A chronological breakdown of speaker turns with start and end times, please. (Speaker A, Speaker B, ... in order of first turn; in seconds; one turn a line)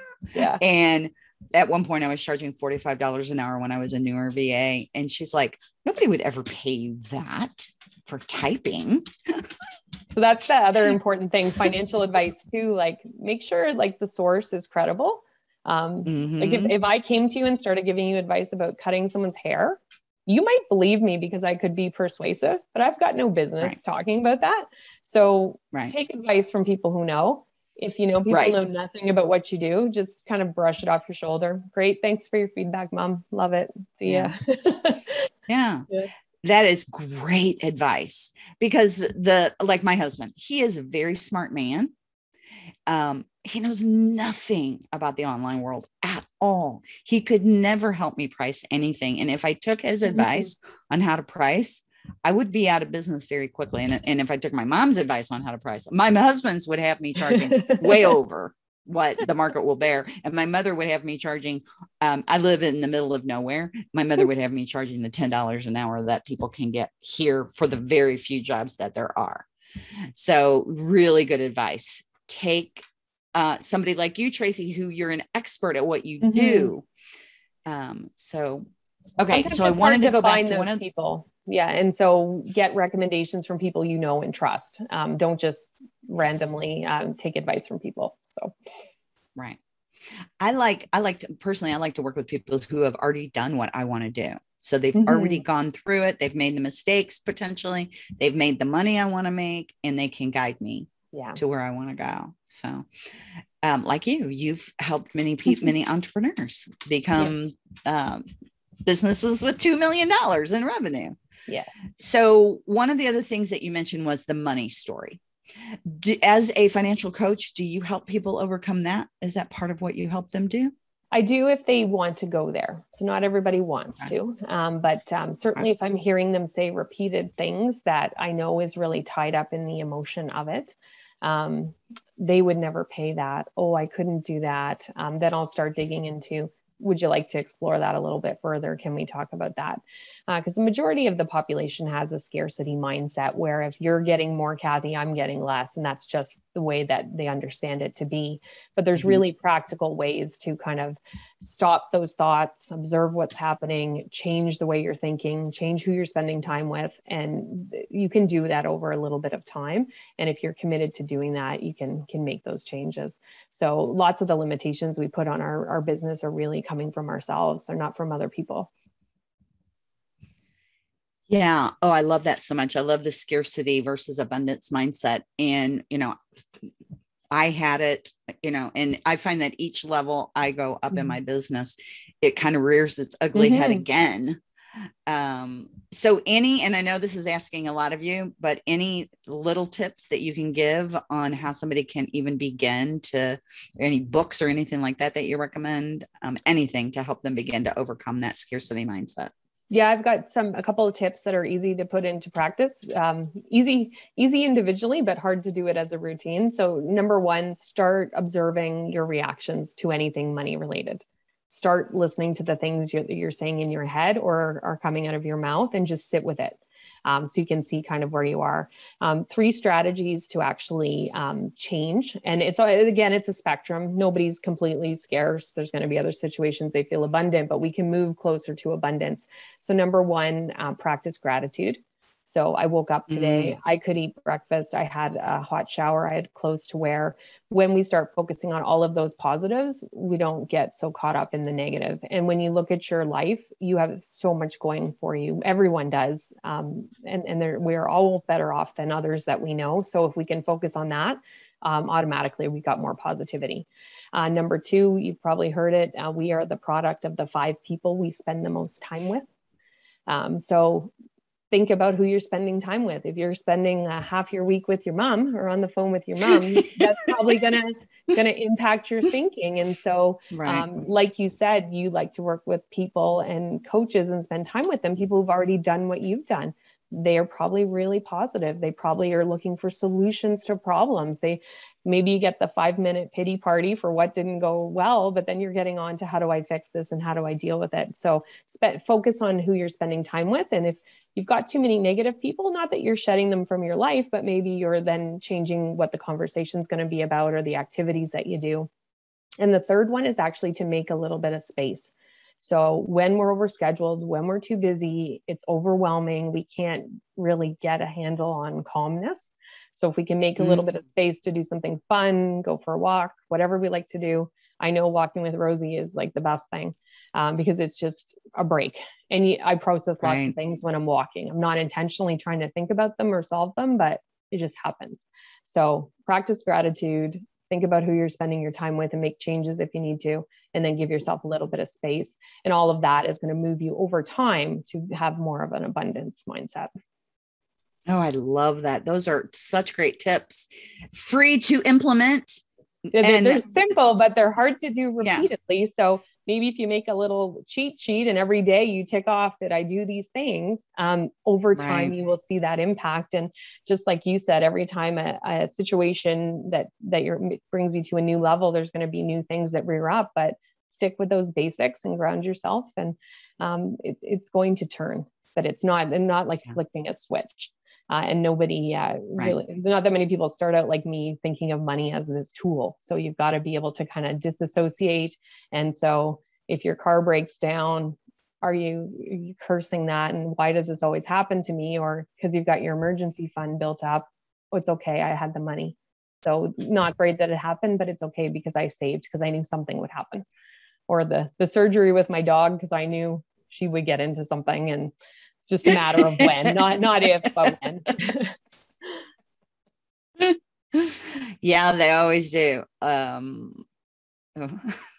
Speaker A: 0.3-0.6
Speaker B: 0.6-9.5
Speaker A: 10.2-35.3
Speaker B: 16.1-16.7
Speaker B: 28.3-28.6
Speaker B: 34.1-34.3
Speaker B: 35.5-35.9
Speaker B: 36.4-41.9
Speaker B: 42.9-69.5
Speaker A: 50.1-50.5
Speaker A: 57.3-58.1
Speaker B: 70.2-72.8
Speaker B: 73.3-76.9
Speaker A: 76.2-76.7
Speaker B: 77.7-78.7
Speaker B: 79.2-80.8
Speaker A: 79.3-88.5
Speaker B: 86.2-86.5
Speaker B: 90.4-102.9
Speaker A: 95.0-95.4
Speaker A: 101.1-101.4
Speaker B: 103.6-108.3
Speaker B: 108.8-111.2
Speaker B: 112.0-115.2
Speaker B: 115.7-120.7
Speaker A: 121.1-168.7
Speaker B: 171.3-176.7
Speaker B: 177.3-184.4
Speaker A: 183.3-183.8
Speaker B: 185.1-199.3
Speaker A: 199.7-259.3
Speaker B: 233.1-233.6
Speaker A: 260.1-260.9
Speaker A: 261.5-298.7
Speaker B: 266.5-266.8
Speaker B: 270.3-270.7
Speaker A: 299.4-336.7
Speaker B: 310.4-310.7
Speaker B: 320.0-320.4
Speaker B: 337.9-343.5
Speaker A: 342.9-390.2
Speaker B: 345.0-345.3
Speaker B: 351.6-351.9
Speaker A: 390.9-394.9
Speaker A: 395.4-398.4
Speaker B: 395.7-396.8
Speaker B: 400.2-403.6
Speaker B: 404.4-404.8